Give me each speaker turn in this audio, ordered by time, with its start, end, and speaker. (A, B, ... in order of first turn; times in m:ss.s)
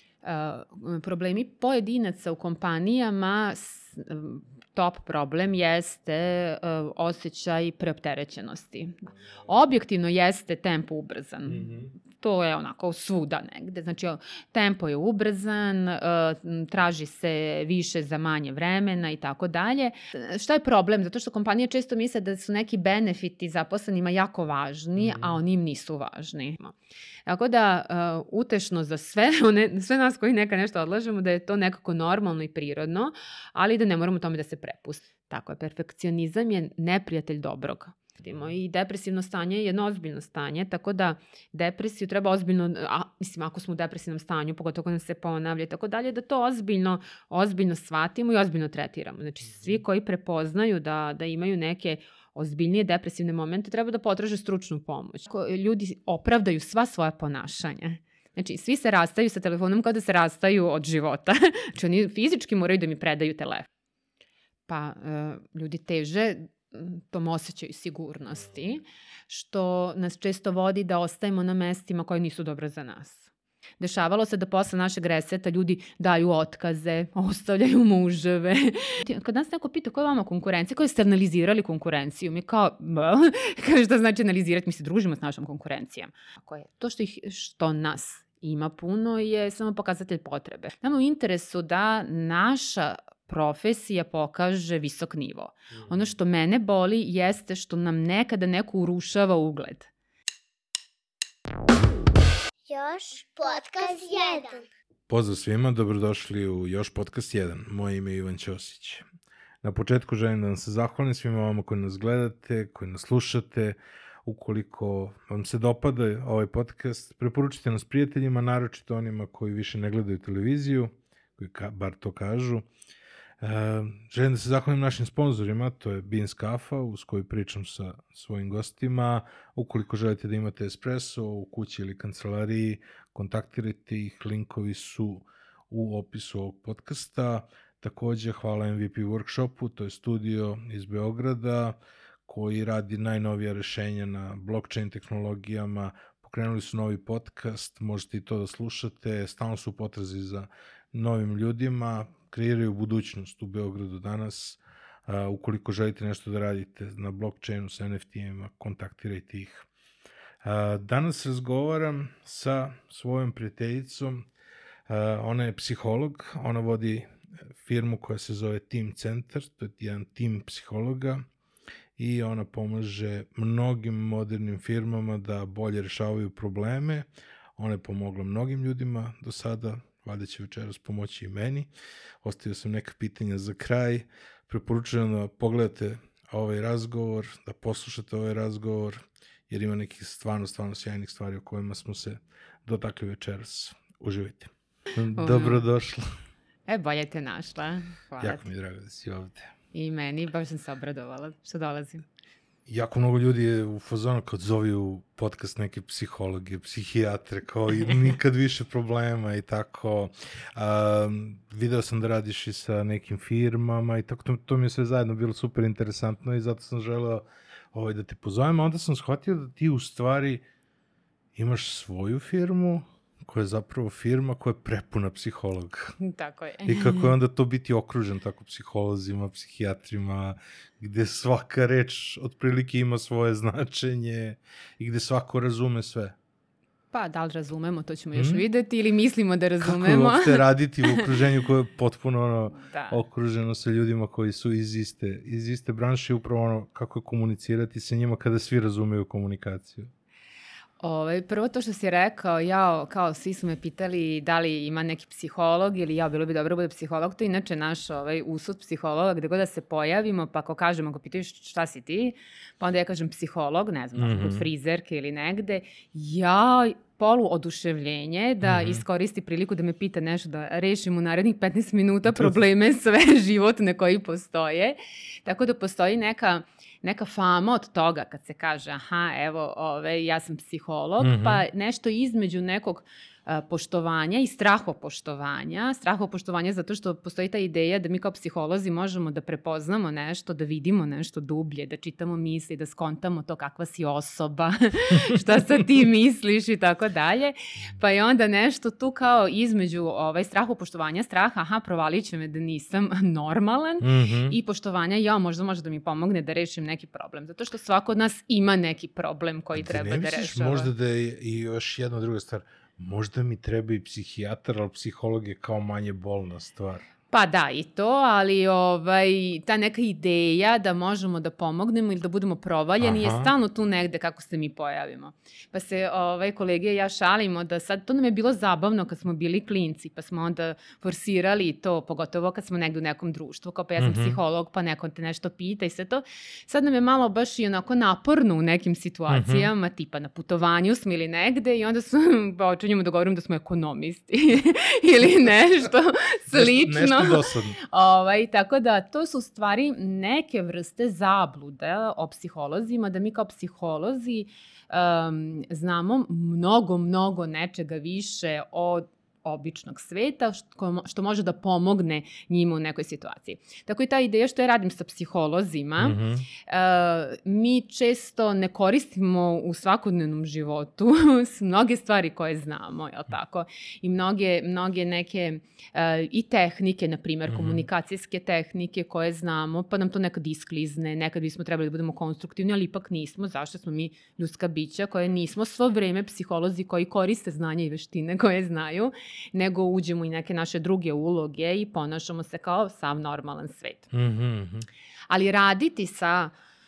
0:00.2-0:26.8 A
0:11.4-0:11.9 B
0:25.0-0:25.4 B
0:27.3-1:03.7 A
1:04.7-1:39.9 A
1:42.7-1:44.6 C
1:45.1-1:49.0 B
1:49.6-2:02.7 B
2:03.4-2:39.7 B
2:40.4-2:44.3 B
2:44.9-2:51.2 B
2:52.0-3:01.7 B
3:02.2-3:16.1 B
3:15.2-3:15.6 A
3:16.7-3:18.4 A
3:18.2-3:19.5 B
3:19.7-3:22.0 A
3:22.7-3:40.4 B
3:41.3-3:46.0 B
3:46.0-3:47.1 A
3:46.6-3:56.2 B
3:56.9-4:01.1 A
3:58.1-3:58.4 B
3:59.6-4:09.9 B
4:02.6-4:03.0 A
4:10.8-5:10.7 A
4:24.0-4:24.5 B
4:28.4-4:28.8 B
4:41.0-4:41.4 B
5:03.8-5:04.4 B
5:09.5-5:16.8 B
5:17.1-6:33.9 A
5:22.8-5:23.3 B
5:33.8-5:34.2 B
5:39.1-5:39.5 B
5:46.3-5:47.6 B
6:05.8-6:06.2 B
6:17.3-6:17.6 B
6:33.9-6:34.6 B
6:35.1-6:36.3 A